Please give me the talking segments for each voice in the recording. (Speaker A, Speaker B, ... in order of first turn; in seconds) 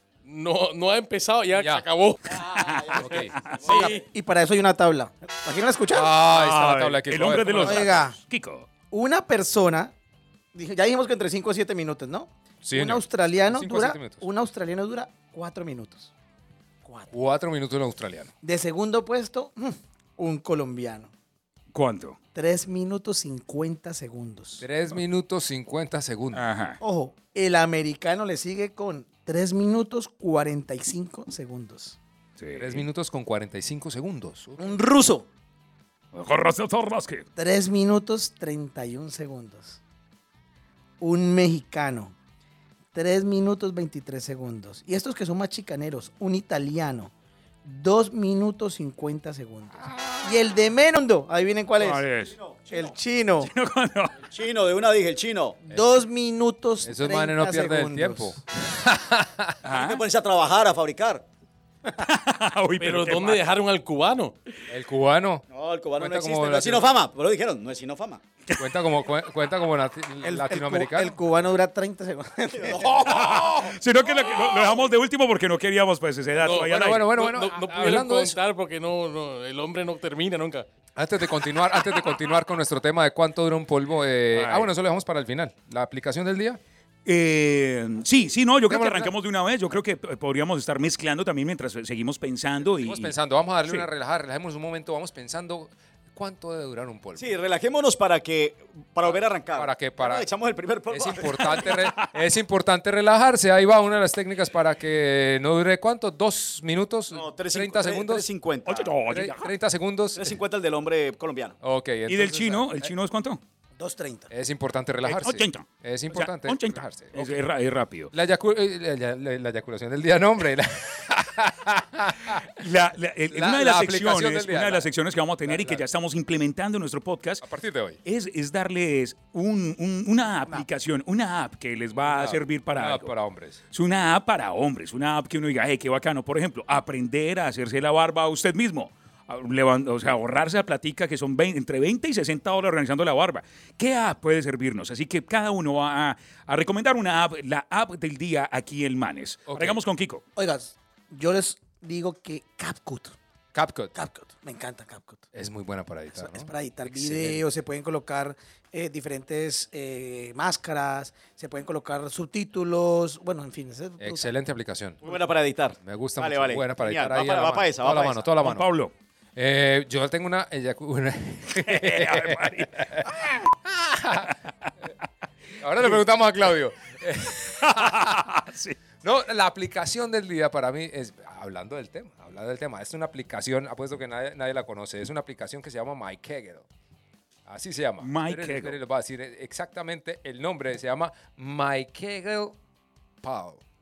Speaker A: 0.2-2.5, 3.6-4.1, 62.8-64.4, 76.4-80.7
Speaker B: 1.5-1.9, 3.0-3.3, 5.9-8.0, 12.6-14.3, 17.1-18.3, 24.6-26.4, 32.5-34.8, 56.8-59.6, 64.7-65.4, 66.0-66.9, 68.6-71.2, 72.8-73.8, 76.5-78.4, 81.0-86.6, 88.7-89.1, 92.7-97.3, 99.0-100.3, 100.9-108.3, 109.0-110.4, 111.6-112.9, 114.3-117.4, 118.1-122.5, 123.3-124.9, 125.5-125.8, 127.4-128.0, 132.0-133.6, 149.5-149.8, 153.5-153.9, 155.3-157.4, 164.0-165.0, 165.8-168.7, 169.3-174.3, 175.6-178.3, 179.0-186.7, 187.4-192.6, 193.2-193.6
Speaker C: 2.5-3.6, 6.2-8.7, 21.7-22.2, 26.3-26.8, 32.4-32.8, 36.1-37.2, 51.8-52.4, 53.4-54.1, 59.6-60.0, 62.0-63.4, 72.8-77.1, 84.3-84.7, 87.0-93.1, 101.3-102.1, 108.6-109.5, 112.1-113.4, 115.0-118.1, 122.5-127.4, 128.0-133.1, 133.7-150.2, 168.4-168.9, 171.5-173.4, 177.6-178.8, 188.0-188.8
Speaker D: 3.6-6.1, 7.5-8.2, 8.9-9.9, 10.5-16.1, 16.8-17.1, 18.4-21.1, 22.3-24.6, 26.8-32.0, 34.6-35.3, 37.4-39.8, 41.0-42.1, 42.9-47.1, 47.6-52.0, 52.7-53.5, 55.7-58.4, 70.2-72.8, 113.8-114.3, 150.3-153.2, 153.9-155.3, 156.1-164.3
Speaker E: 52.2-53.0, 54.3-55.6, 59.7-61.2, 65.5-68.2, 72.6-73.3, 97.2-101.7, 107.1-109.0, 110.2-111.6, 165.0-168.3